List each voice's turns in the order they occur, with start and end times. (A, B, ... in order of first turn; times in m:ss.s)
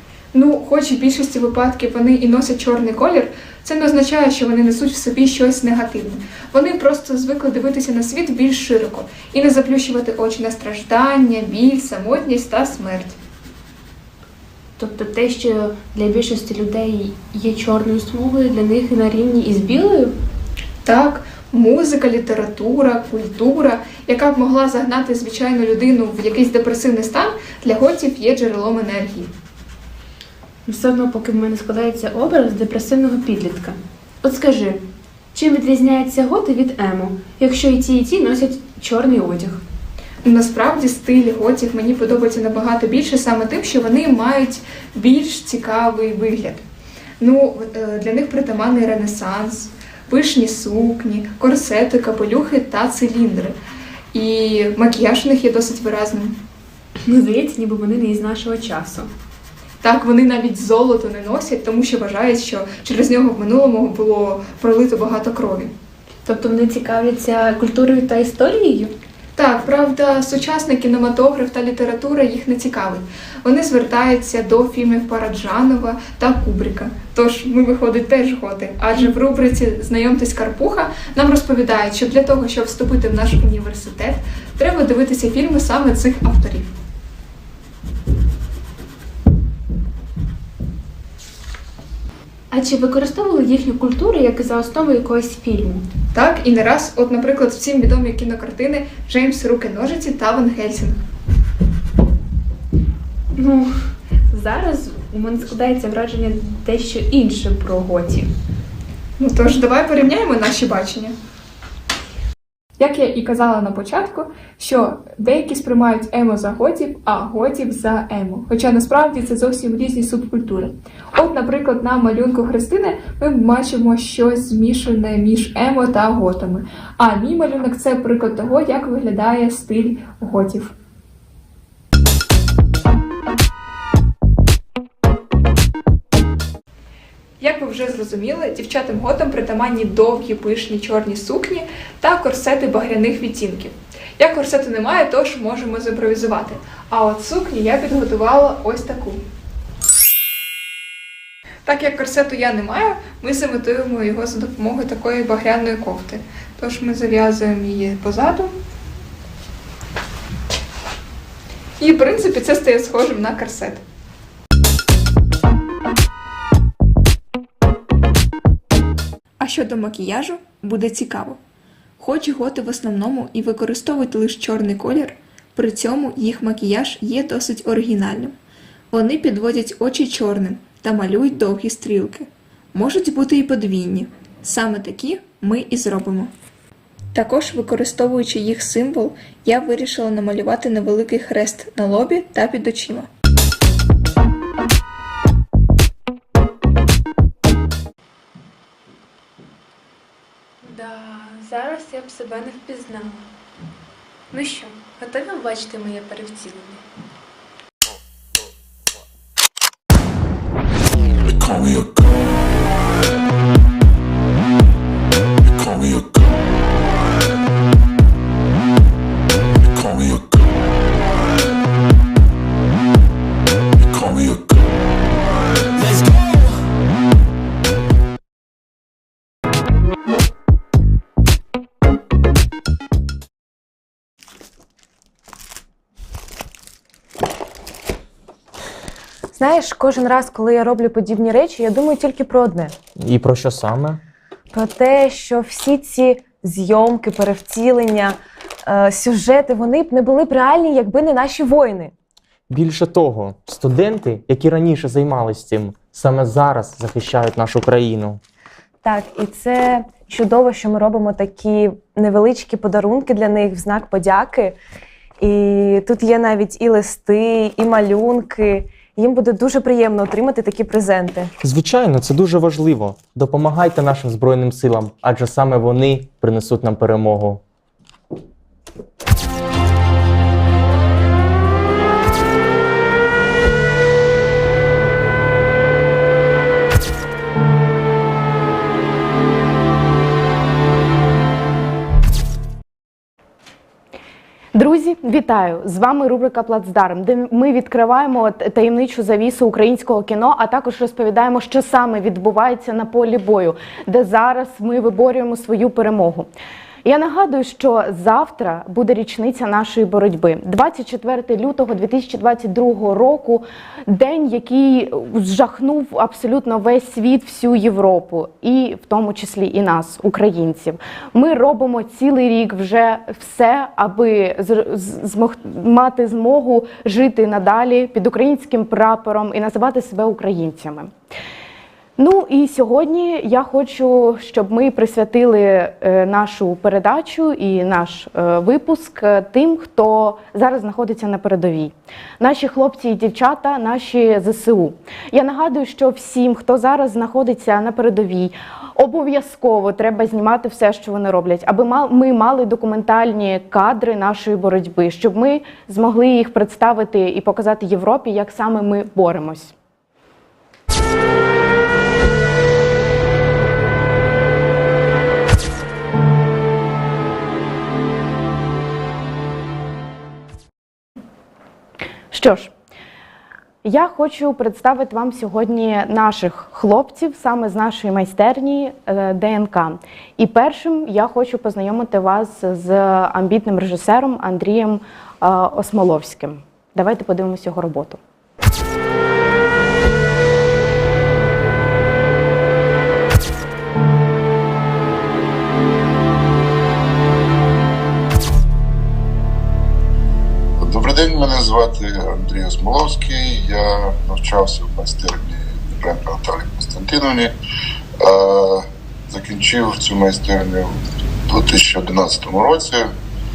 0:00.3-0:13.2 A
0:14.8-0:20.2 B
0:20.8-0:29.3 A
0:30.7-0:34.8 B
0:35.3-0:39.6 B
0:40.2-0:46.6 A
0:47.2-0:53.6 A
0:54.1-0:56.4 A
0:57.1-0:59.1 B
0:59.8-1:05.7 A
1:06.3-1:09.0 B
1:09.4-1:26.7 A
1:32.5-1:35.9 B
1:36.1-1:41.0 A
1:43.4-1:43.7 B
1:44.3-1:48.3 B
1:49.2-1:51.2 A
1:52.8-2:10.7 A
2:17.4-2:29.2 A
2:31.7-2:38.5 A
2:41.8-2:43.8 A
2:49.4-2:51.4 A
2:52.0-2:58.4 A
2:58.9-3:06.3 A
3:07.1-3:13.1 A
3:20.6-3:23.3 B
3:24.3-3:26.8 B
3:31.2-3:32.6 C
3:35.4-3:36.6 C
3:39.6-3:41.1 C
3:43.8-3:45.1 C
3:59.3-4:02.8 D
4:03.0-4:04.0 E
4:04.5-4:11.9 D
4:12.5-4:18.2 E
4:18.8-4:24.6 D
4:25.2-4:31.3 D
4:31.4-4:37.4 E
4:54.6-5:06.3 F
5:06.8-5:30.9 F
5:32.0-5:59.5 F
6:12.1-6:12.5 F
6:13.6-6:28.0 F
6:40.6-6:47.4 G
6:48.0-6:50.8 G
6:51.3-6:52.9 G